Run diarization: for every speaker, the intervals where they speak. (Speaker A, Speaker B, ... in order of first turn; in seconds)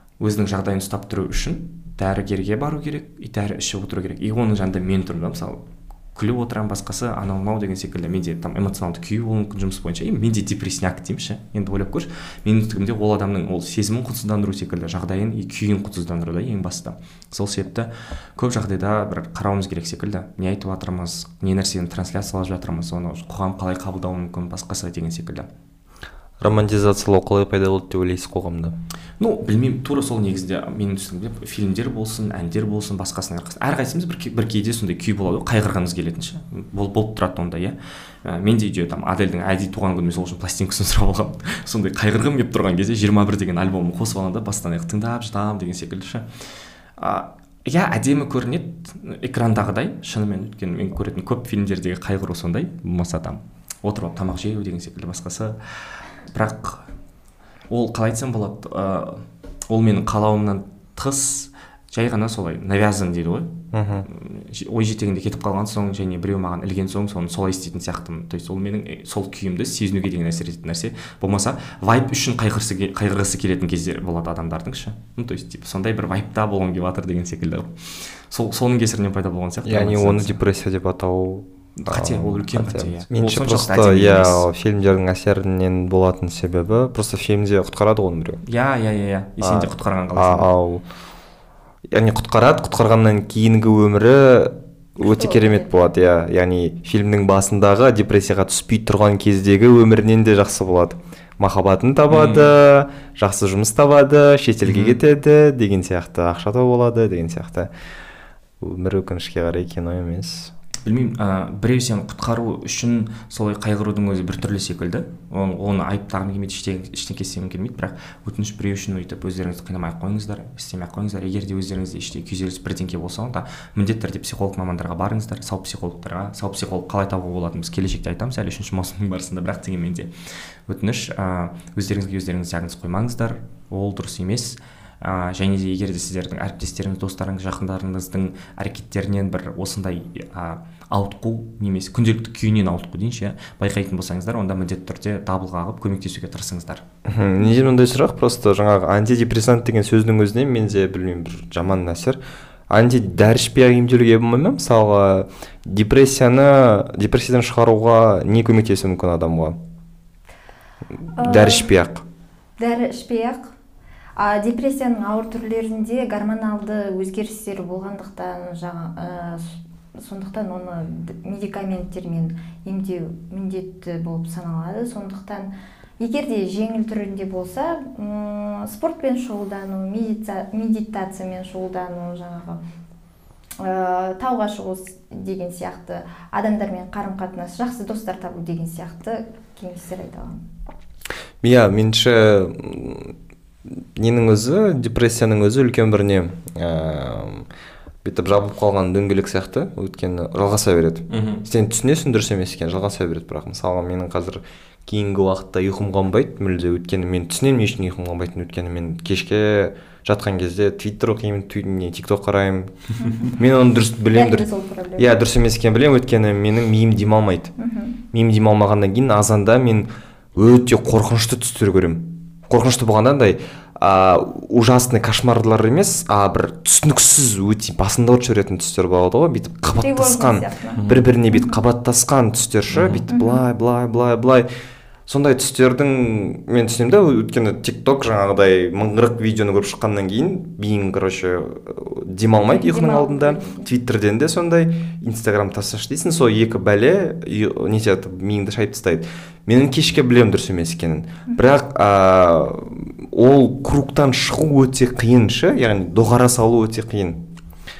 Speaker A: 0.2-5.6, 6.1-25.5, 29.2-46.3, 47.0-55.6, 56.3-56.8, 57.7-63.5, 64.0-80.4, 81.8-84.4, 88.4-90.5, 102.1-102.5, 104.7-105.0, 110.8-130.1, 130.7-146.8, 201.1-201.4, 230.7-231.0, 232.7-233.0
Speaker B: 26.4-28.7, 63.7-64.1, 79.6-88.4, 89.4-90.8, 91.9-107.7, 108.6-110.5, 147.1-152.2, 152.7-159.6, 161.1-162.0, 191.4-197.5, 198.0-212.7, 213.3-217.5, 218.1-234.4, 235.1-257.2
Speaker C: 95.0-95.7, 161.2-161.7, 162.6-163.5, 164.2-182.6, 183.6-190.4, 213.0-213.4, 214.1-215.2, 217.6-217.9, 229.8-231.6, 233.1-233.4, 242.5-243.7